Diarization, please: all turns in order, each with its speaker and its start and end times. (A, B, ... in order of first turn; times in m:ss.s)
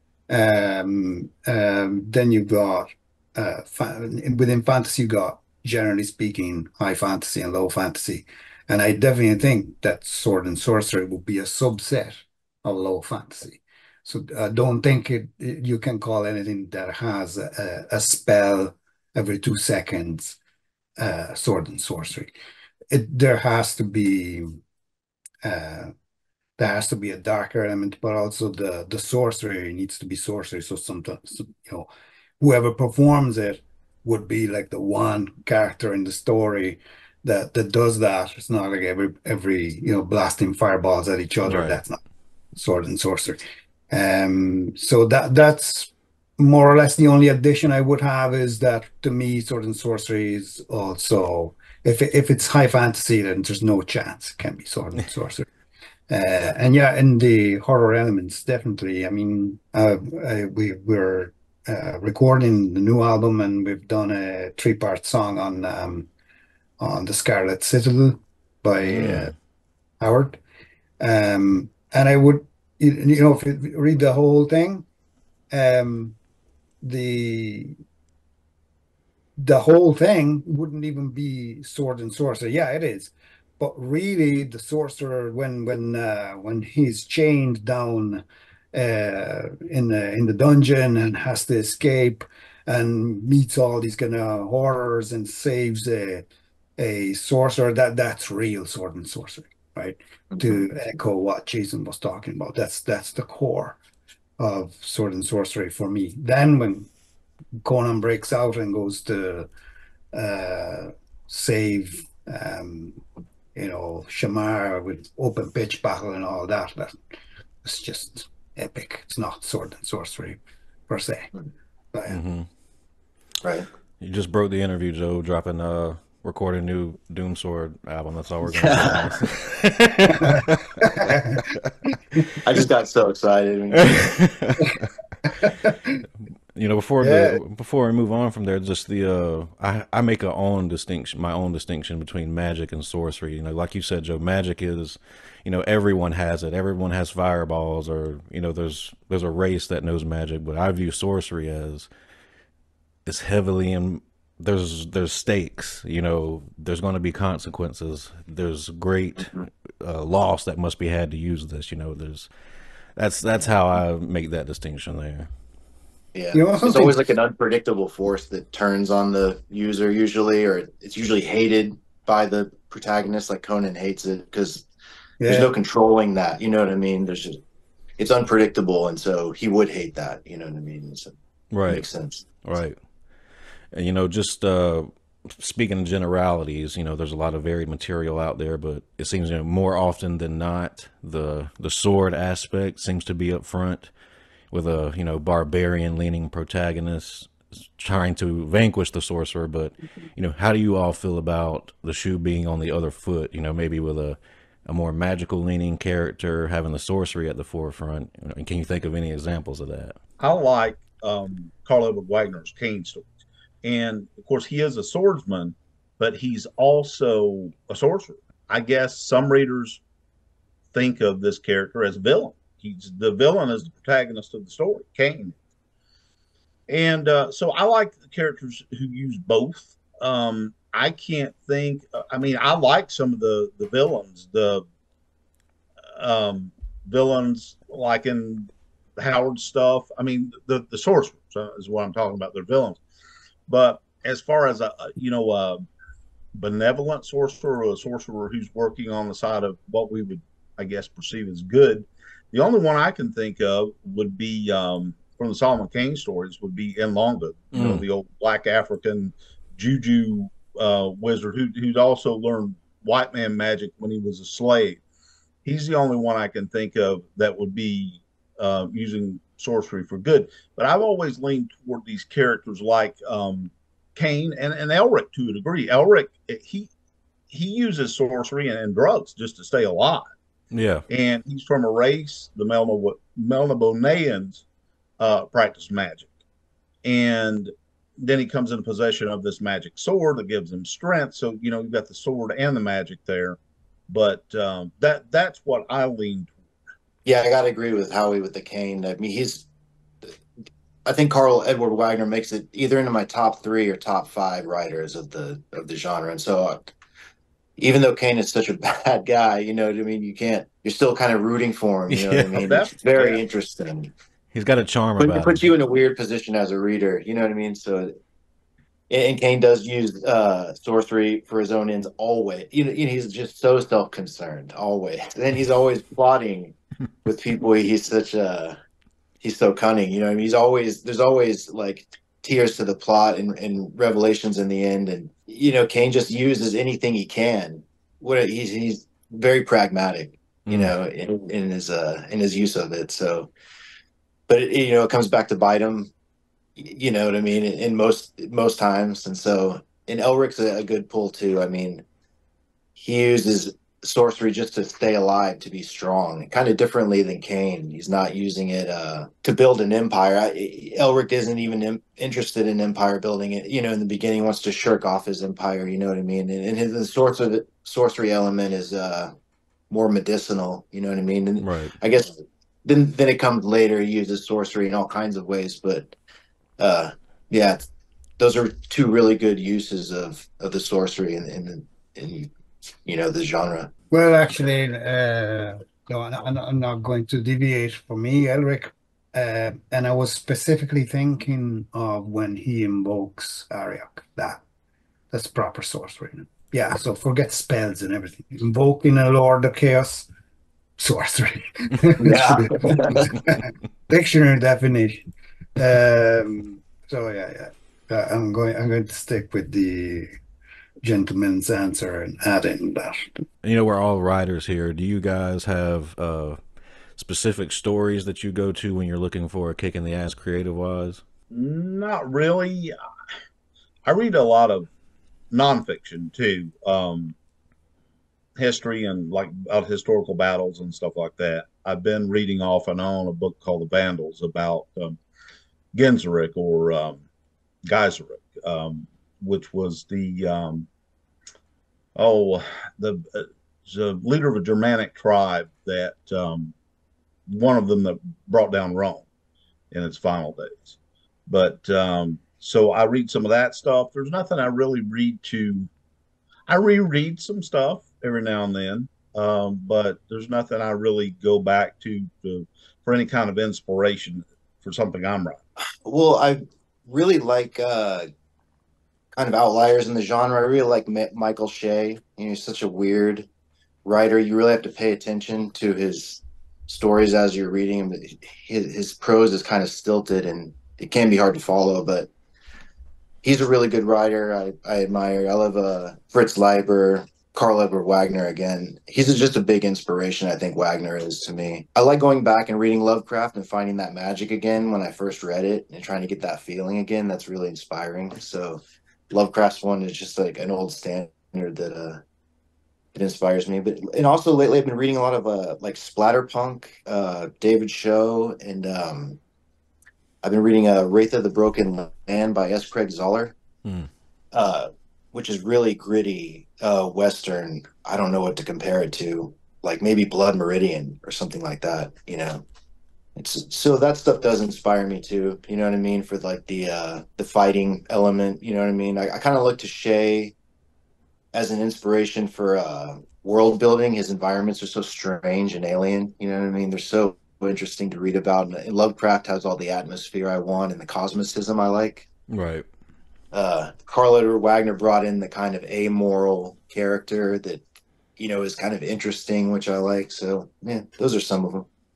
0:00.3-0:20.4 A
0:21.0-0:22.3 A
0:22.9-0:24.6 A
0:25.4-0:25.9 A
0:26.6-0:31.9 A
0:32.4-0:42.0 A
0:41.4-0:41.8 B
0:42.5-0:43.4 A
0:43.9-0:55.5 A
0:56.1-1:06.1 A
1:06.8-1:09.3 A
1:08.9-1:09.3 B
1:10.0-1:10.4 A
1:11.0-1:14.8 A
1:15.5-1:16.2 A
1:16.8-1:17.8 A
1:19.4-1:36.3 A
1:36.8-1:43.8 A
1:40.3-1:40.6 C
1:44.4-1:46.9 A
1:47.6-1:49.5 A
1:50.1-1:53.0 A
1:53.5-1:57.0 A
1:57.6-2:01.3 A
2:01.9-2:02.2 A
2:02.1-2:02.5 B
2:04.0-2:10.8 B
2:08.4-2:09.2 C
2:10.2-2:12.2 A
2:12.4-2:14.1 C
2:13.8-2:14.9 B
2:15.4-2:16.0 A
2:16.5-2:31.9 B
2:17.0-2:17.4 A
2:33.0-2:42.3 B
2:43.0-2:45.3 B
2:46.1-2:54.7 C
2:46.3-2:47.1 A
2:55.2-2:55.5 A
2:55.2-2:57.4 C
2:58.0-3:01.1 C
3:01.5-3:01.8 B
3:01.7-3:02.2 C
3:02.4-3:02.8 B
3:03.7-3:13.9 B
3:14.5-3:30.0 B
3:30.2-3:33.1 D
3:33.6-3:39.8 D
3:40.7-3:45.4 D
3:46.7-3:54.6 D
3:56.0-4:02.8 D
4:03.5-4:05.6 D
4:06.3-4:24.8 D
4:17.5-4:17.8 B
4:25.4-4:36.7 D
4:37.3-4:40.1 D
4:40.5-4:40.8 B
4:40.9-4:44.4 D
4:45.0-4:46.1 D
4:46.8-4:53.4 D
4:53.9-4:56.4 D
4:57.0-4:59.5 C
5:00.8-5:06.7 C
5:07.6-5:13.9 C
5:11.9-5:12.5 B
5:12.4-5:13.2 D
5:14.3-5:15.4 B
5:15.0-5:17.9 C
5:18.9-5:28.6 C
5:29.2-5:43.3 C
5:40.5-5:40.7 B
5:44.3-5:45.9 C
5:46.6-5:51.8 C
5:52.8-6:09.1 C
6:09.7-6:15.9 C
6:11.4-6:11.7 B
6:16.6-6:17.6 C
6:18.2-6:22.3 C
6:22.8-6:23.7 C
6:23.9-6:34.4 A
6:35.1-6:40.1 A
6:40.8-6:45.0 A
6:42.0-6:43.1 C
6:45.6-6:50.1 A
6:50.8-6:53.2 A
6:53.4-6:56.4 B
6:57.0-7:01.0 B
7:01.3-7:02.7 D
7:03.8-7:04.7 D
7:05.3-7:07.2 D
7:08.4-7:15.0 D
7:15.7-7:17.0 D
7:17.6-7:20.7 D
7:22.0-7:26.5 D
7:27.3-7:29.0 D
7:29.7-7:30.8 D
7:31.3-7:35.7 D
7:36.5-7:45.4 D
7:45.8-7:48.0 C
7:49.1-7:53.3 C
7:53.8-8:02.1 C
8:03.2-8:22.0 C
8:22.9-8:29.2 C
8:30.2-8:33.4 C
8:34.3-8:42.4 C
8:43.2-8:50.3 C
8:51.3-9:02.1 C
9:02.3-9:02.6 B
9:03.3-9:07.6 C
9:08.2-9:11.7 C